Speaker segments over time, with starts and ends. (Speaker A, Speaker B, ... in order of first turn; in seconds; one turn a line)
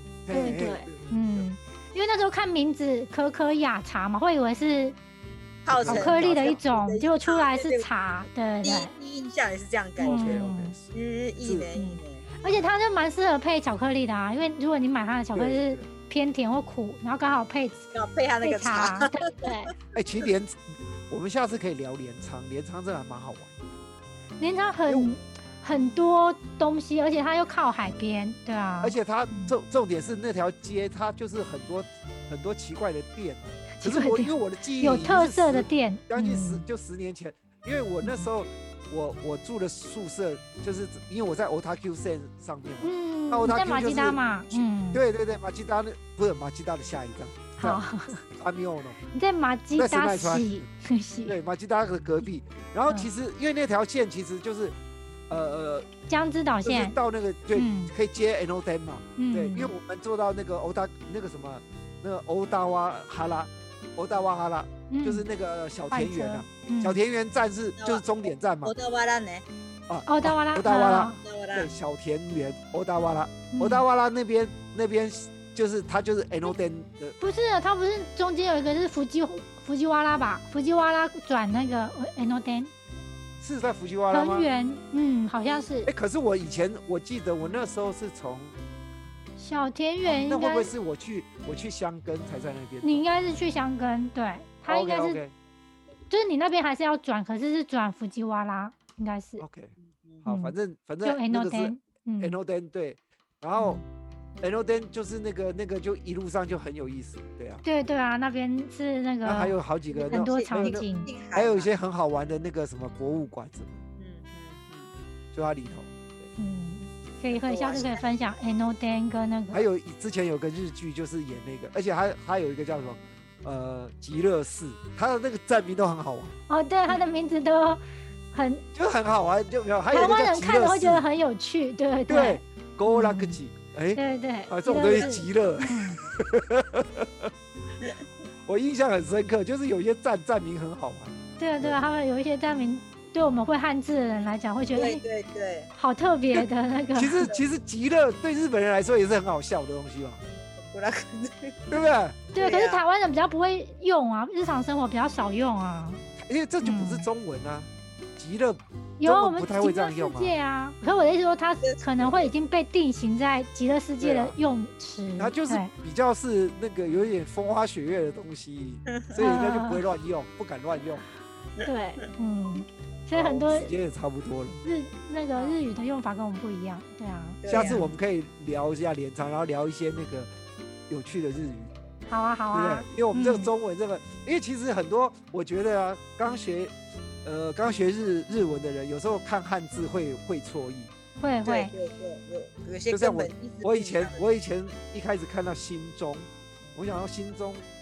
Speaker A: 0.3-1.5
Speaker B: 0.3-5.0
Speaker C: 5.7-7.9
Speaker A: 5.7-6.6
Speaker B: 5.8-8.9
Speaker C: 8.6-12.2
Speaker A: 10.0-10.9
Speaker B: 10.0-10.8
Speaker A: 11.4-11.7
Speaker B: 11.8-17.9
Speaker A: 15.3-15.9
Speaker C: 17.9-19.5
Speaker B: 18.4-19.7
Speaker A: 19.9-23.5
Speaker B: 24.4-29.6
Speaker A: 24.9-25.1
Speaker A: 28.8-49.0
Speaker B: 33.8-36.6
Speaker B: 38.0-38.3
Speaker B: 42.8-45.0
Speaker B: 47.6-48.2
Speaker B: 49.1-51.4
Speaker A: 49.8-50.6
Speaker A: 51.3-54.8
Speaker A: 55.3-55.9
Speaker B: 56.1-57.0
Speaker A: 56.6-68.7
Speaker B: 57.5-57.9
Speaker B: 59.2-59.7
Speaker B: 64.9-65.3
Speaker B: 65.9-67.0
Speaker C: 67.8-68.0
Speaker C: 68.6-69.5
Speaker A: 69.9-77.2
Speaker B: 70.1-71.2
Speaker C: 71.2-71.7
Speaker B: 73.5-73.8
Speaker B: 77.2-82.7
Speaker A: 83.4-84.5
Speaker B: 84.1-85.9
Speaker A: 85.9-88.5
Speaker B: 89.4-90.7
Speaker A: 90.1-93.0
Speaker B: 92.8-95.2
Speaker A: 94.7-95.3
Speaker B: 96.1-99.5
Speaker A: 99.4-103.8
Speaker C: 99.8-100.2
Speaker B: 100.2-102.4
Speaker B: 103.6-103.8
Speaker A: 104.4-107.6
Speaker B: 107.6-111.1
Speaker A: 109.2-113.8
Speaker C: 110.0-111.7
Speaker C: 114.0-114.9
Speaker A: 115.3-116.3
Speaker B: 116.4-119.7
Speaker C: 117.3-118.0
Speaker A: 119.5-126.3
Speaker B: 126.5-128.7
Speaker A: 128.7-131.1
Speaker B: 129.9-133.4
Speaker A: 132.1-137.3
Speaker B: 133.9-136.0
Speaker C: 134.8-135.1
Speaker A: 138.4-141.8
Speaker B: 141.4-145.0
Speaker C: 144.8-145.7
Speaker B: 145.8-147.3
Speaker A: 146.3-150.2
Speaker C: 150.5-151.8
Speaker A: 151.7-152.2
Speaker B: 152.3-156.0
Speaker C: 152.4-152.8
Speaker A: 156.2-160.3
Speaker B: 156.6-157.1
Speaker B: 159.0-165.7
Speaker C: 161.6-162.3
Speaker A: 164.0-164.4
Speaker A: 165.2-171.1
Speaker B: 169.2-169.8
Speaker B: 171.6-173.7
Speaker A: 173.1-174.6
Speaker B: 174.6-177.9
Speaker C: 175.3-175.6
Speaker C: 177.4-177.8
Speaker A: 177.5-180.3
Speaker A: 180.9-181.7
Speaker B: 182.1-183.5
Speaker A: 182.5-190.9
Speaker B: 191.2-191.7
Speaker C: 191.4-194.2
Speaker A: 192.9-197.7